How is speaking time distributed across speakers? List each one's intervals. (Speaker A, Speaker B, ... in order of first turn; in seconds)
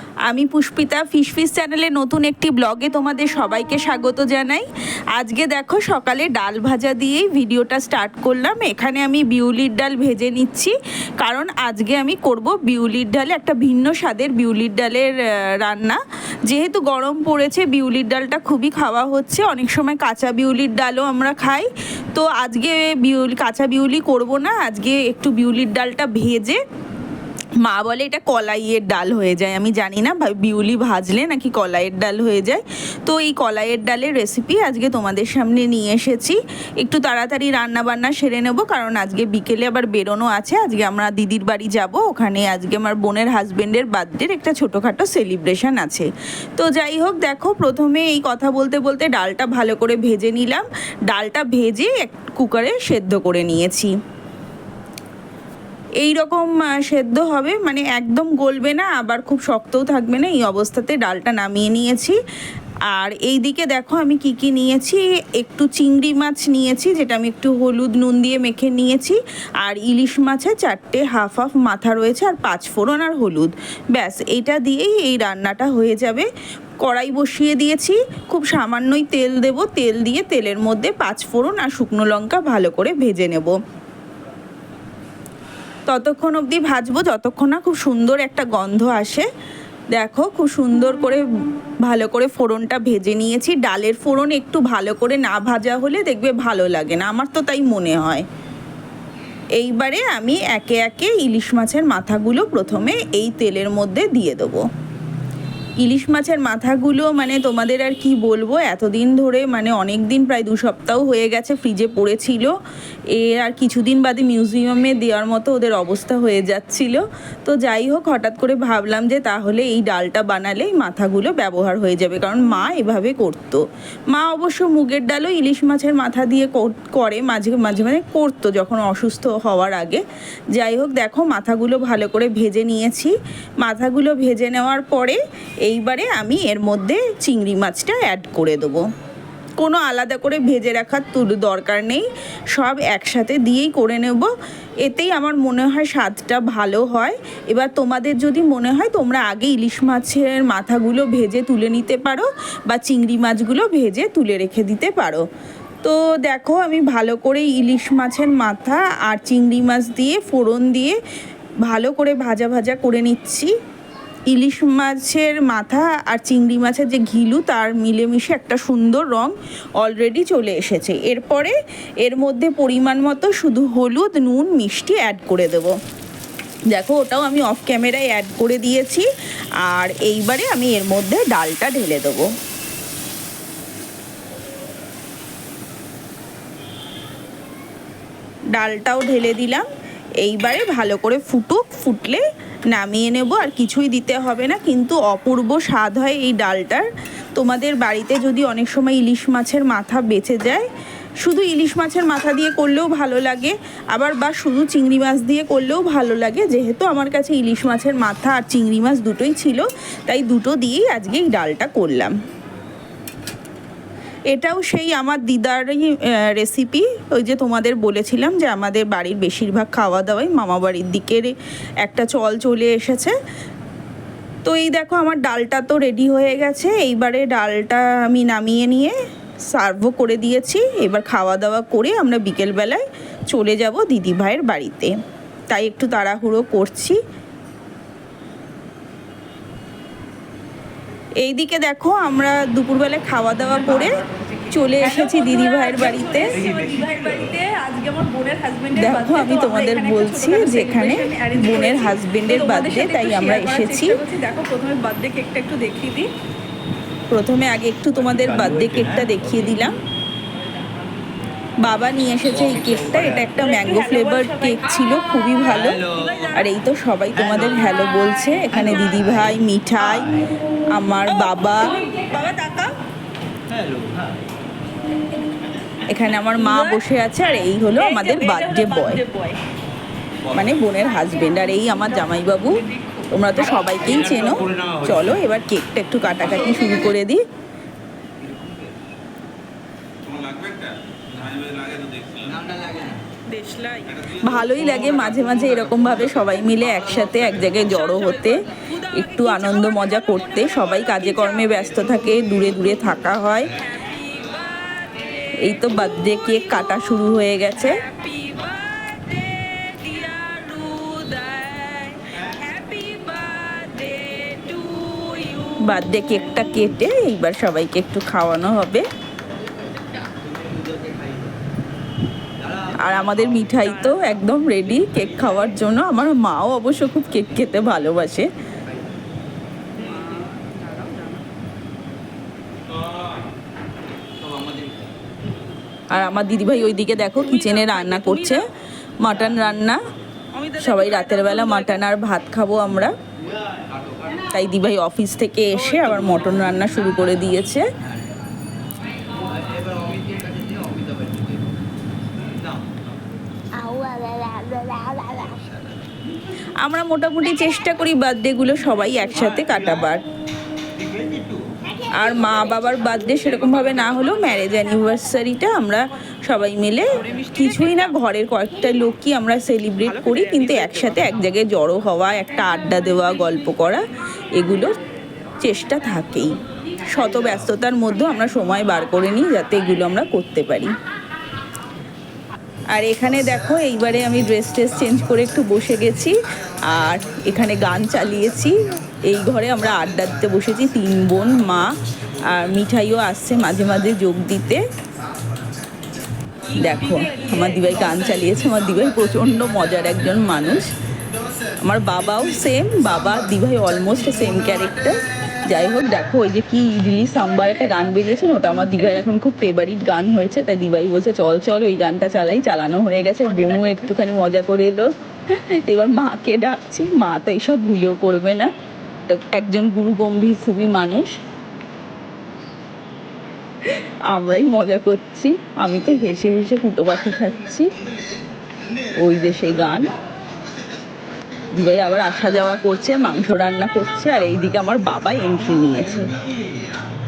Speaker A: 0.3-26.6, 27.6-46.1, 46.6-53.9, 56.0-62.2, 62.9-76.3, 76.8-83.5, 85.9-89.3, 89.9-91.2, 91.8-98.2, 99.6-104.6, 105.8-112.5, 113.1-133.1, 133.6-138.8, 139.6-144.3, 144.8-155.2, 155.8-161.0, 161.7-163.5, 164.3-175.7, 176.7-179.1, 179.6-182.3, 188.5-189.7, 190.2-200.7, 201.2-212.1, 214.3-223.1, 224.4-228.9, 229.5-234.9, 235.5-237.0, 241.2-246.4, 248.8-254.0, 257.1-259.8, 261.6-271.8, 275.9-279.0, 280.3-287.2, 294.1-303.6, 305.4-307.8, 315.6-318.9, 322.8-328.3, 335.9-338.4, 339.0-339.8, 340.6-342.9, 344.3-347.6, 356.6-360.0, 361.9-373.8, 374.4-374.7, 375.4-376.3, 376.9-380.7, 382.7-391.7, 392.3-394.6, 396.5-400.7, 401.6-418.5, 419.1-421.2, 423.7-427.7, 429.0-429.9, 431.6-436.1
Speaker B: 243.8-256.1, 263.4-264.7, 265.9-266.5, 271.2-272.8, 276.4-276.8, 277.8-279.4, 282.7-283.1, 292.4-294.1, 297.9-301.7, 303.6-305.4, 307.7-315.6, 329.8-331.2, 337.3-338.4, 340.4-341.8, 349.9-350.5, 370.0-370.9
Speaker C: 290.1-290.8, 291.3-292.3, 353.6-355.5